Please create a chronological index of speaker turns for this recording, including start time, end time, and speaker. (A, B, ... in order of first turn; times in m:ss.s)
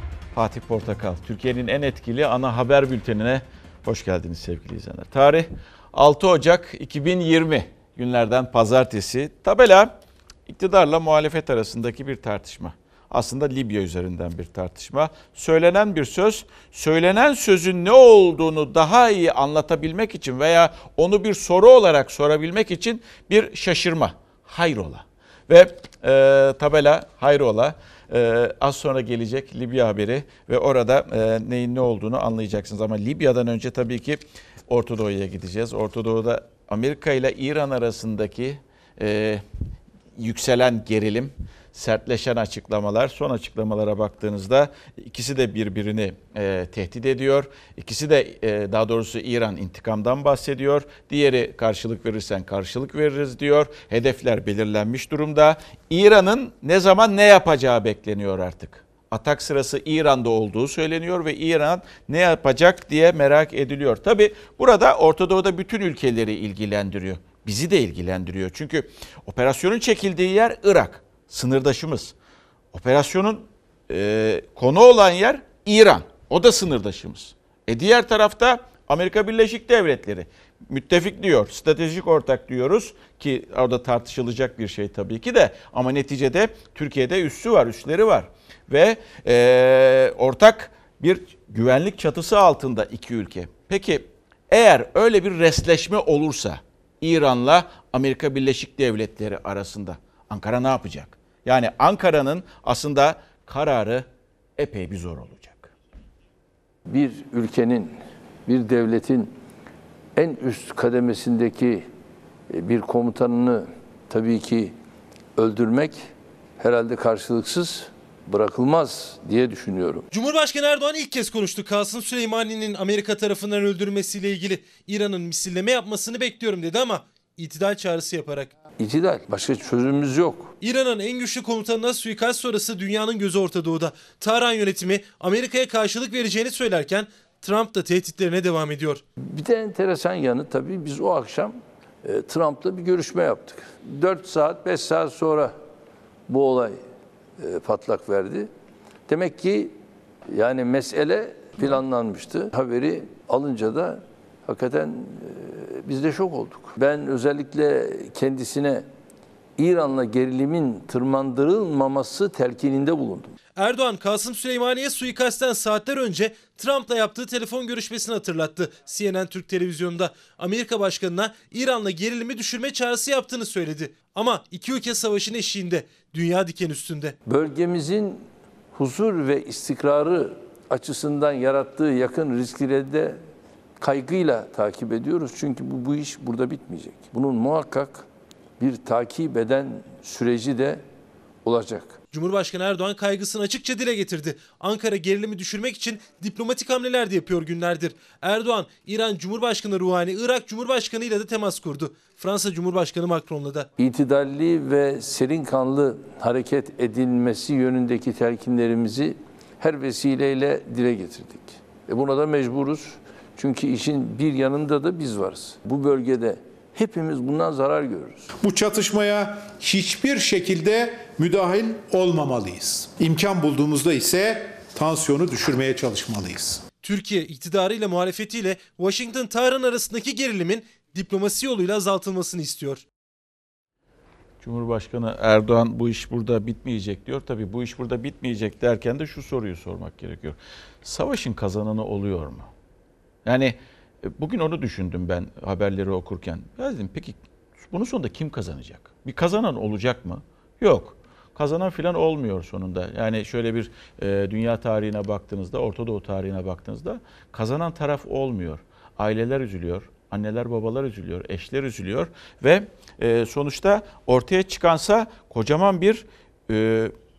0:00.3-0:09.9 A
0:10.5-0:39.4 A
0:40.2-1:12.1 A
1:12.7-1:45.7 A
1:46.8-1:49.3 B
1:50.2-1:51.8 B
1:52.5-1:54.7 B
1:55.4-1:56.0 B
1:56.6-2:00.1 B
2:00.1-2:08.5 C
2:08.8-2:10.5 B
2:10.6-2:19.0 C
2:19.2-2:25.5 B
2:26.3-2:26.8 B
2:27.4-2:28.5 B
2:29.1-2:29.7 B
2:30.3-2:38.8 B
2:39.6-2:43.3 B
2:43.6-2:57.2 C
2:57.2-3:03.2 B
3:03.8-3:08.1 B
3:08.6-3:10.8 B
3:11.4-3:12.0 B
3:12.1-3:23.7 C
3:23.8-3:38.3 B
3:38.4-3:46.6 D
3:46.8-3:52.8 C
3:54.4-4:02.5 A
4:03.2-4:26.9 A